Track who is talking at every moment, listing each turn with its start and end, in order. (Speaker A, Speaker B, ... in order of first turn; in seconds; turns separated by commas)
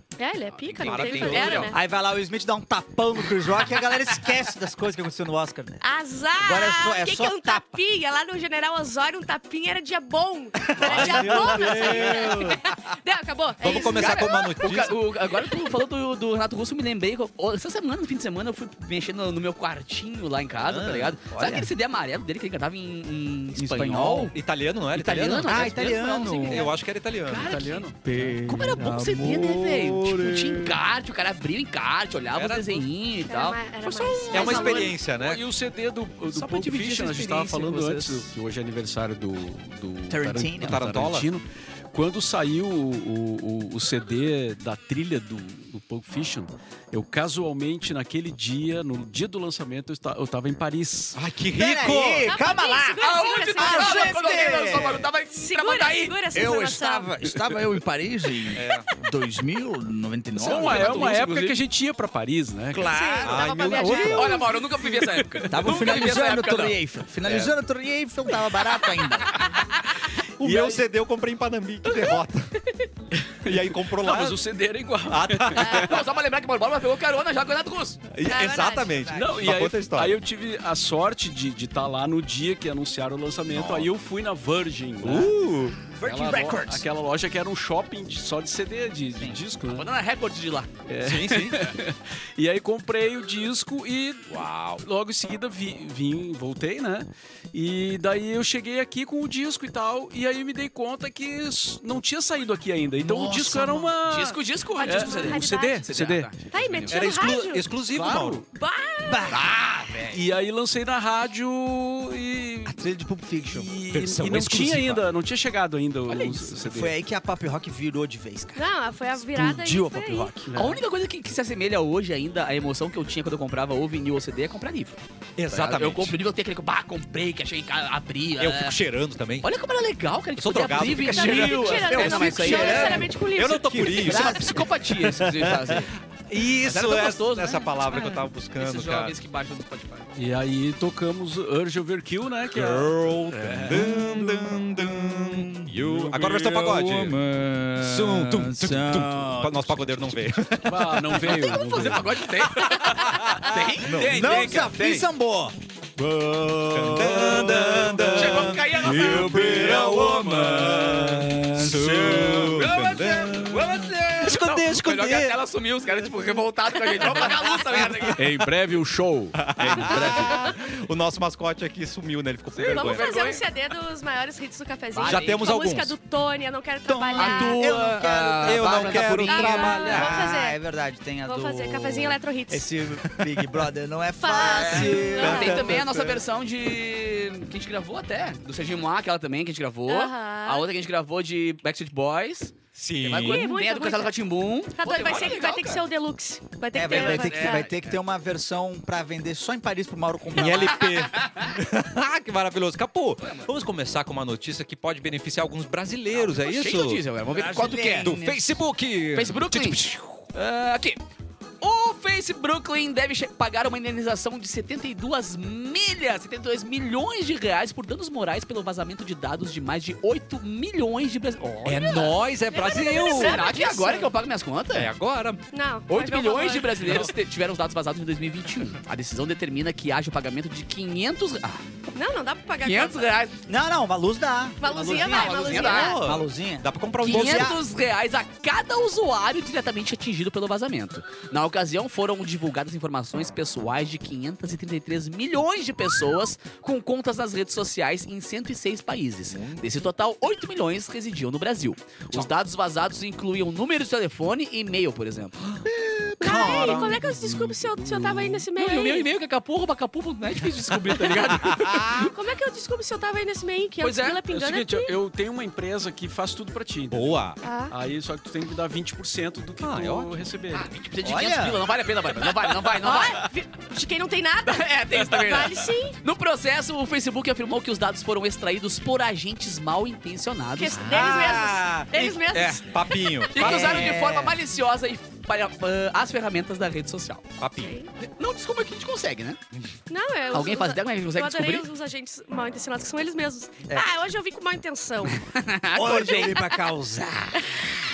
Speaker A: 0.2-1.8, Speaker B: 0.5-1.7, Speaker C: 0.8-1.7, Speaker D: 1.6-5.8, Speaker A: 5.8-15.7, Speaker D: 6.4-7.8, Speaker D: 10.6-12.6, Speaker C: 10.8-12.7, Speaker C: 13.6-15.0, Speaker B: 13.6-24.4, Speaker C: 20.6-21.1, Speaker D: 21.3-21.7, Speaker D: 23.5-24.3, Speaker C: 24.3-27.6, Speaker B: 24.9-26.7, Speaker D: 25.4-26.7, Speaker B: 27.2-27.9, Speaker E: 27.3-28.4, Speaker D: 28.0-30.8, Speaker B: 28.4-34.9, Speaker C: 32.3-32.9, Speaker A: 33.2-35.0, Speaker C: 34.3-35.4, Speaker E: 34.4-51.2, Speaker B: 36.3-38.3, Speaker D: 40.1-40.9, Speaker C: 40.5-41.3, Speaker C: 51.1-52.3, Speaker D: 51.5-55.1, Speaker A: 52.2-57.1, Speaker B: 53.0-56.2, Speaker D: 56.3-61.2, Speaker C: 58.5-58.9, Speaker E: 60.4-63.0, Speaker B: 60.4-61.6, Speaker D: 62.7-64.1, Speaker A: 62.9-64.5, Speaker C: 63.2-64.4, Speaker E: 63.7-64.1, Speaker B: 63.9-66.8, Speaker E: 64.9-65.5, Speaker D: 65.5-69.5, Speaker C: 67.2-67.5, Speaker C: 70.4-72.5, Speaker E: 70.4-70.8, Speaker A: 71.8-72.9, Speaker E: 73.2-75.9, Speaker C: 73.4-74.4, Speaker C: 75.0-76.0, Speaker B: 75.5-78.0, Speaker A: 75.6-75.9, Speaker C: 78.1-80.2, Speaker A: 78.2-79.1, Speaker D: 79.0-79.5, Speaker E: 79.1-85.4, Speaker C: 83.5-83.9, Speaker C: 85.0-85.8, Speaker D: 85.8-86.8, Speaker E: 86.0-89.9, Speaker B: 89.7-90.7, Speaker E: 90.9-94.3, Speaker C: 91.0-91.7, Speaker C: 94.3-94.8, Speaker E: 94.8-106.3, Speaker D: 103.0-103.9, Speaker B: 104.0-107.0, Speaker A: 104.8-105.8, Speaker A: 106.5-107.7, Speaker C: 106.9-108.4, Speaker E: 107.9-108.4, Speaker A: 108.5-109.4, Speaker D: 109.0-109.6, Speaker B: 109.3-110.2, Speaker E: 110.1-112.8, Speaker D: 112.7-113.7, Speaker E: 113.4-116.9, Speaker C: 113.9-115.0, Speaker B: 116.1-116.4, Speaker D: 116.5-118.6, Speaker A: 118.5-120.3, Speaker D: 119.2-120.6, Speaker E: 120.5-120.8, Speaker B: 120.5-128.8, Speaker C: 125.4-126.2, Speaker C: 128.4-129.5, Speaker B: 129.4-133.1, Speaker C: 130.4-131.8, Speaker A: 131.0-134.4, Speaker D: 131.3-133.1, Speaker E: 131.5-131.9, Speaker C: 132.4-134.7, Speaker D: 133.9-135.8, Speaker B: 134.0-135.9, Speaker C: 136.3-139.1, Speaker B: 136.6-140.1, Speaker E: 140.2-143.9, Speaker C: 142.5-147.2, Speaker D: 143.6-150.4, Speaker C: 147.8-151.5, Speaker E: 150.7-152.2, Speaker B: 151.2-154.9, Speaker C: 152.6-154.3, Speaker E: 153.5-155.0, Speaker D: 153.9-165.4, Speaker C: 156.7-164.0, Speaker B: 158.1-159.5, Speaker E: 158.8-163.5, Speaker B: 162.6-168.2, Speaker E: 168.1-170.4, Speaker C: 169.3-173.1, Speaker A: 169.8-170.5, Speaker B: 172.5-173.4, Speaker A: 172.7-177.6, Speaker B: 174.9-175.5, Speaker C: 175.0-175.9, Speaker D: 176.9-185.7, Speaker B: 177.2-179.9, Speaker C: 178.4-180.3, Speaker A: 179.2-180.6, Speaker A: 181.2-182.7, Speaker A: 184.2-185.8, Speaker B: 184.5-195.8, Speaker C: 185.2-186.2, Speaker A: 189.9-190.7, Speaker C: 192.7-193.5, Speaker A: 193.1-194.2, Speaker A: 194.7-197.7, Speaker D: 196.7-200.9, Speaker B: 196.8-197.9, Speaker C: 200.3-207.0, Speaker B: 200.8-201.5, Speaker B: 203.2-203.5, Speaker B: 206.1-208.1, Speaker D: 207.3-208.6, Speaker C: 208.0-210.3, Speaker B: 209.1-209.8, Speaker B: 210.3-211.0, Speaker B: 211.6-222.2, Speaker C: 221.6-223.4, Speaker A: 222.5-224.1, Speaker B: 223.1-224.9, Speaker C: 224.7-225.4, Speaker A: 225.5-227.0, Speaker B: 225.9-231.6, Speaker C: 226.8-227.1, Speaker A: 231.9-233.1, Speaker B: 232.6-233.4, Speaker D: 233.4-237.6, Speaker A: 234.6-236.0, Speaker B: 234.9-236.0, Speaker C: 235.5-237.6, Speaker B: 237.0-255.4, Speaker C: 249.3-249.8, Speaker C: 255.4-257.1, Speaker D: 256.2-257.0, Speaker A: 256.2-259.1, Speaker E: 257.8-258.4, Speaker B: 258.5-262.1, Speaker C: 261.1-262.1, Speaker A: 261.9-264.9, Speaker B: 263.8-264.2, Speaker E: 264.3-270.7, Speaker C: 266.9-267.4, Speaker A: 267.4-267.7, Speaker C: 269.6-270.1, Speaker B: 270.5-273.3, Speaker D: 271.0-271.6, Speaker A: 272.7-275.9, Speaker B: 274.4-280.8, Speaker A: 280.5-283.3, Speaker C: 280.7-284.0, Speaker D: 280.9-282.1, Speaker B: 283.3-287.2, Speaker D: 283.4-284.4, Speaker C: 287.4-287.8, Speaker A: 287.6-287.9, Speaker B: 288.0-289.4, Speaker A: 289.9-295.3, Speaker B: 290.3-291.7, Speaker B: 295.1-296.5, Speaker D: 295.7-297.5